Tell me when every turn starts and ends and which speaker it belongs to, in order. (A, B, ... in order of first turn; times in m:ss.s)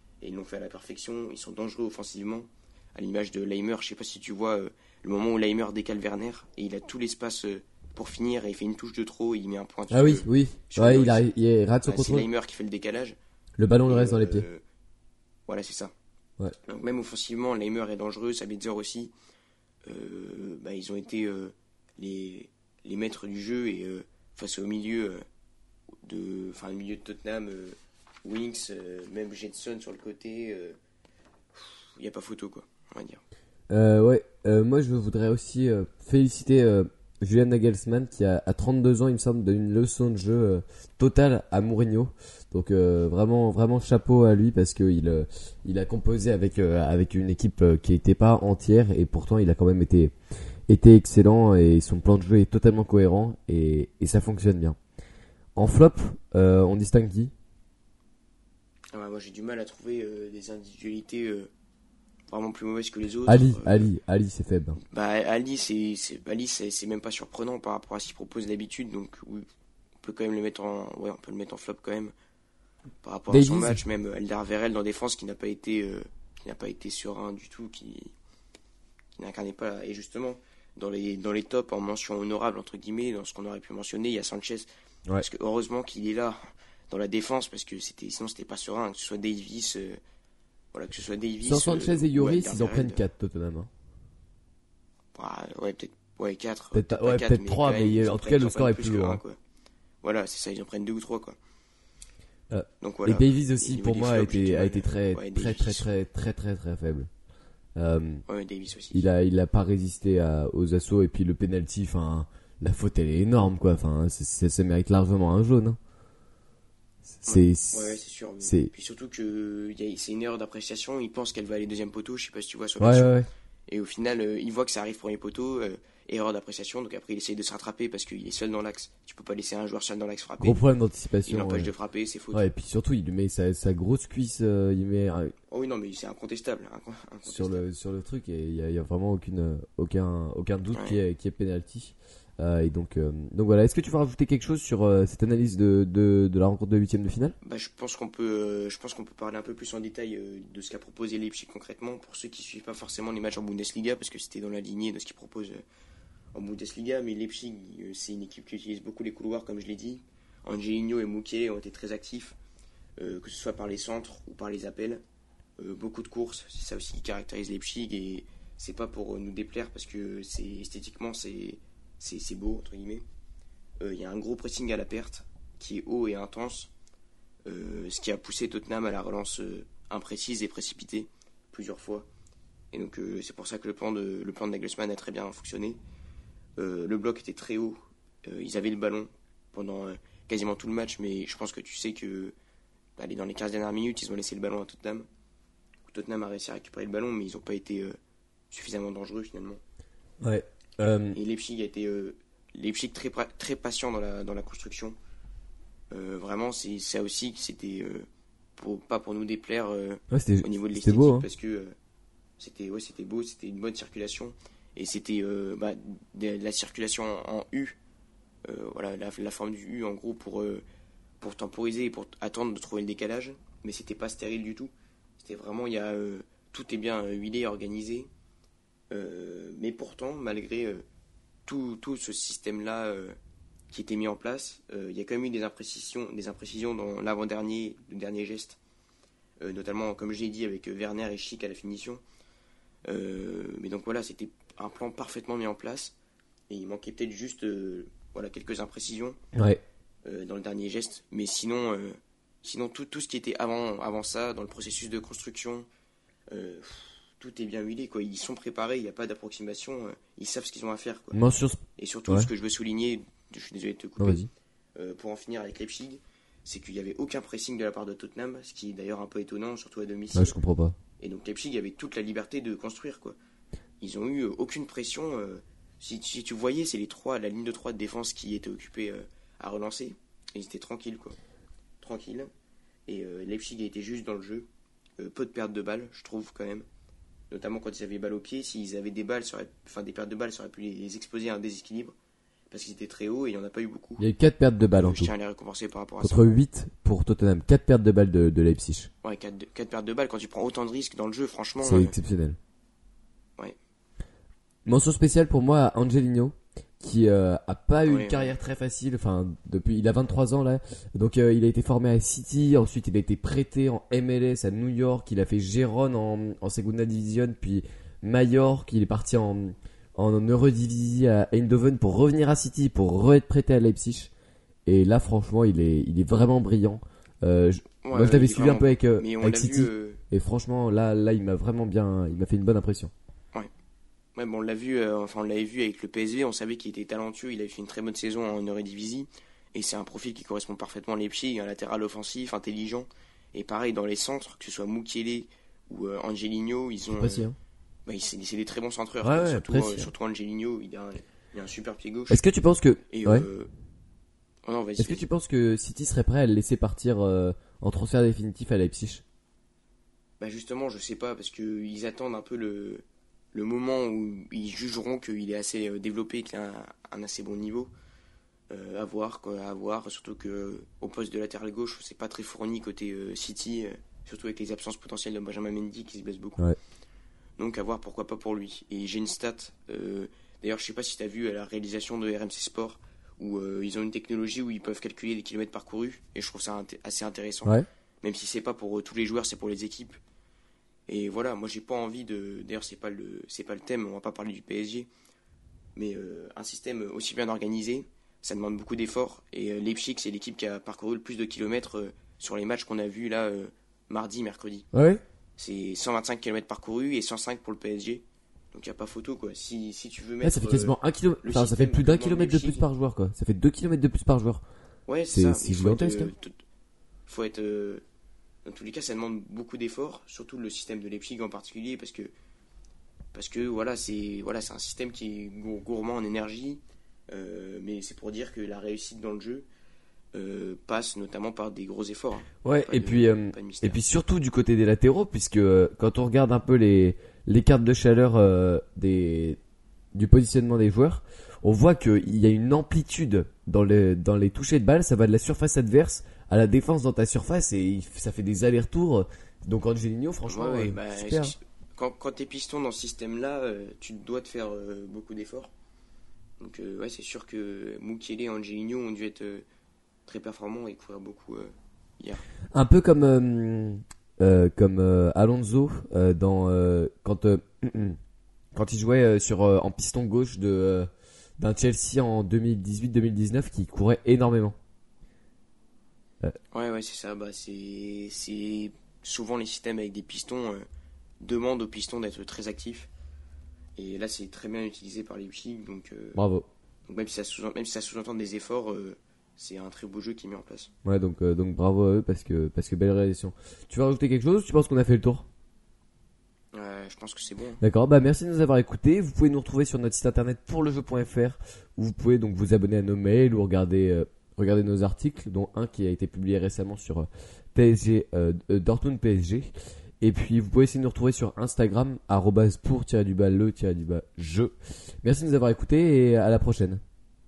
0:00.2-0:11.3 A
0:09.9-0:12.3 B
0:11.8-0:13.2 A
0:13.6-0:14.5 B
0:13.8-0:14.6 A
0:15.5-0:15.9 A
0:16.6-0:19.1 A
0:19.8-0:25.2 A
0:26.0-0:30.8 A
0:31.5-0:33.2 A
0:33.7-0:50.1 B
0:50.7-0:54.8 B
0:55.6-0:57.3 B
0:58.9-1:01.5 A
1:02.3-1:03.9 A
1:03.2-1:04.8 B
1:04.8-1:09.4 A
1:10.0-1:12.1 A
1:13.0-1:18.1 A
1:13.3-1:13.8 B
1:19.2-1:30.0 A
1:30.7-1:33.0 A
1:31.4-1:33.7 B
1:35.1-1:39.4 A
1:36.7-1:39.2 B
1:40.0-1:41.4 A
1:42.5-1:47.1 B
1:42.8-1:45.9 A
1:47.8-1:48.2 B
1:48.3-1:49.0 A
1:48.9-1:55.8 B
1:57.2-1:58.7 B
1:57.3-2:03.1 A
2:02.8-2:03.3 B
2:03.7-2:10.6 A
2:10.4-2:11.7 B
2:11.3-2:12.5 A
2:12.3-2:15.3 B
2:15.5-2:17.7 A
2:17.3-2:27.4 B
2:20.7-2:21.0 A
2:27.4-2:35.6 A
2:36.3-2:42.4 A
2:43.0-2:45.0 A
2:45.6-2:53.0 A
2:53.8-2:56.7 A
2:57.4-3:02.1 A
3:02.7-3:05.8 A
3:06.6-3:12.3 A
3:13.0-3:15.1 A
3:15.8-3:18.0 A
3:18.5-3:19.6 A
3:20.2-3:21.2 B
3:21.1-3:25.0 A
3:25.9-3:31.7 A
3:30.1-3:31.3 B
3:32.4-3:37.8 A
3:38.4-3:40.6 A
3:41.2-3:48.1 A
3:48.9-3:50.8 A
3:51.5-3:53.2 A
3:53.7-3:58.6 A
3:59.4-4:02.0 A
4:02.8-4:05.9 A
4:06.5-4:09.2 A
4:09.3-4:09.6 B
4:10.0-4:15.7 A
4:16.3-4:21.2 A
4:21.1-4:22.3 B
4:21.8-4:30.3 A
4:24.0-4:24.3 B
4:30.1-4:30.8 B
4:31.0-4:33.2 A
4:33.8-4:41.2 A
4:41.8-4:42.3 A
4:42.9-4:44.5 A
4:45.0-4:46.6 A
4:47.3-4:51.9 A
4:52.5-4:54.0 A
4:54.0-4:55.1 B
4:54.7-4:56.3 A
4:56.0-4:58.9 B
4:59.0-5:01.9 A
5:01.6-5:02.4 B
5:04.6-5:24.1 B
5:07.8-5:08.3 A
5:24.6-5:32.9 B
5:27.8-5:30.0 A
5:34.2-5:47.3 A
5:46.8-5:47.3 B
5:47.8-5:52.2 A
5:49.0-5:49.9 B
5:52.1-5:53.3 B
5:52.9-5:53.5 A
5:54.4-5:55.0 A
5:54.8-5:59.0 B
6:00.2-6:07.7 A
6:08.5-6:16.4 A
6:17.4-6:30.0 A
6:30.9-6:34.9 A
6:35.8-6:44.7 A
6:44.7-6:45.0 B
6:45.4-6:52.6 A
6:50.2-6:54.4 B
6:54.9-6:56.3 A
6:55.1-6:56.1 B
6:57.1-6:57.8 A
6:58.4-7:02.1 A
7:03.1-7:09.4 A
7:10.1-7:13.8 A
7:12.4-7:19.4 B
7:19.9-7:31.3 B
7:30.2-7:35.5 A
7:36.4-7:39.4 A
7:40.1-7:42.2 A
7:42.5-7:48.0 B
7:48.5-7:54.6 B
7:56.5-8:00.6 A
8:01.2-8:02.9 A
8:03.8-8:06.2 A
8:06.1-8:06.5 B
8:06.9-8:10.7 A
8:10.8-8:15.3 B
8:16.5-8:17.6 A
8:17.6-8:36.8 B